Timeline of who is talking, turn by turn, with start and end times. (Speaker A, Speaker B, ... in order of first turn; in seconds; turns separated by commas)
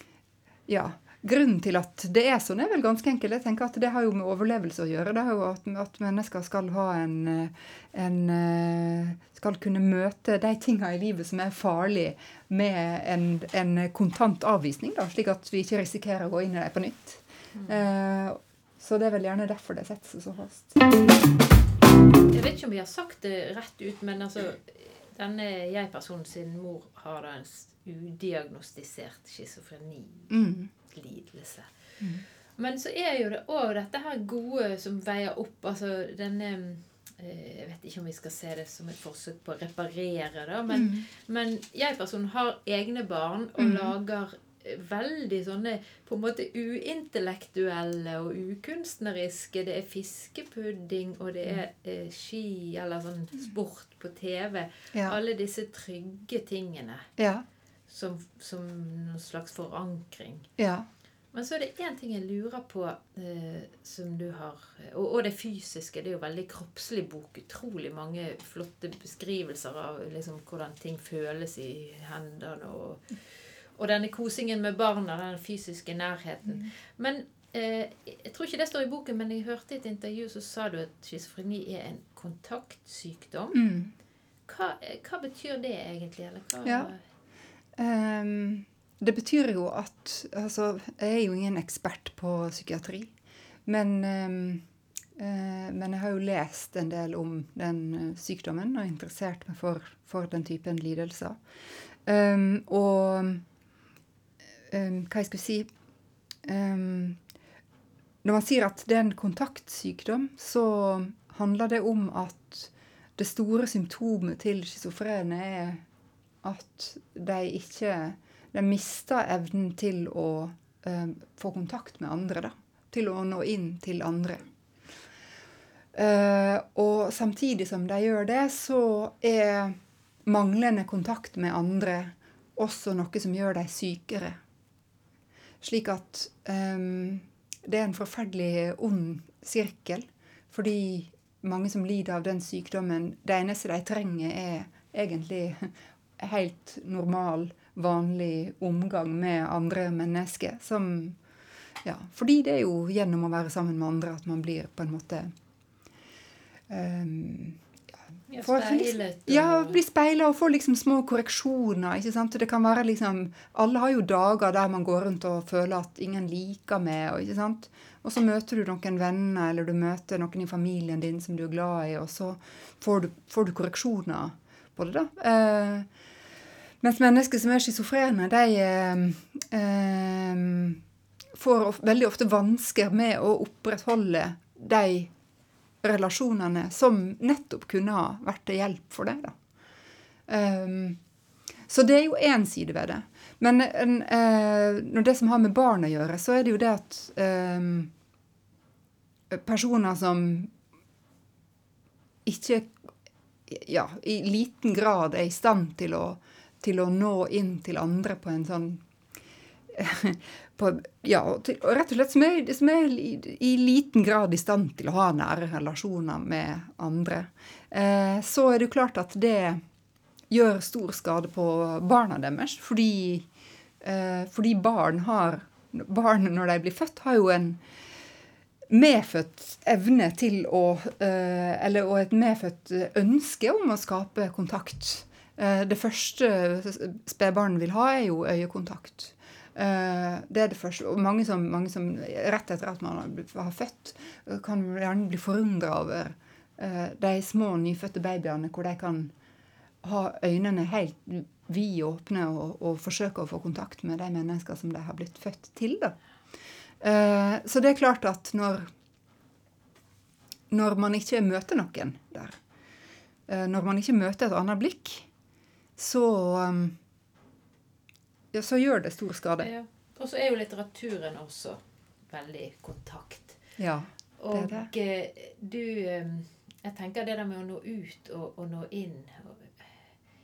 Speaker A: 0.7-20.8, Speaker B: 17.5-17.8, Speaker B: 22.3-31.7, Speaker A: 30.3-30.7, Speaker B: 32.5-57.1, Speaker A: 40.7-41.0, Speaker A: 43.6-43.9, Speaker A: 57.2-57.5, Speaker B: 57.9-60.5, Speaker A: 60.6-60.9, Speaker B: 61.3-83.6, Speaker A: 83.5-83.9, Speaker B: 84.5-87.0, Speaker A: 86.6-86.9, Speaker A: 87.8-93.1, Speaker A: 93.7-94.6, Speaker A: 95.2-101.4, Speaker A: 102.0-103.4, Speaker A: 104.7-105.7, Speaker A: 106.4-107.2, Speaker A: 108.2-115.8, Speaker A: 116.4-124.5, Speaker A: 125.9-134.4, Speaker A: 135.6-151.2, Speaker A: 151.8-155.3, Speaker A: 156.7-157.6, Speaker B: 158.3-159.8, Speaker A: 158.4-175.9, Speaker A: 176.8-180.8, Speaker A: 181.3-185.1, Speaker A: 185.8-189.3, Speaker A: 190.3-191.0, Speaker A: 191.7-197.9, Speaker A: 199.3-200.5, Speaker A: 202.2-202.8, Speaker A: 203.5-208.8, Speaker A: 209.7-219.6, Speaker A: 220.3-223.3, Speaker A: 223.8-227.6, Speaker A: 228.7-249.1, Speaker A: 249.8-255.9, Speaker A: 256.8-258.7, Speaker A: 260.5-262.4, Speaker A: 263.3-265.1, Speaker A: 265.8-266.8, Speaker A: 268.3-269.5, Speaker B: 269.4-273.4, Speaker A: 273.6-274.7, Speaker B: 274.2-279.7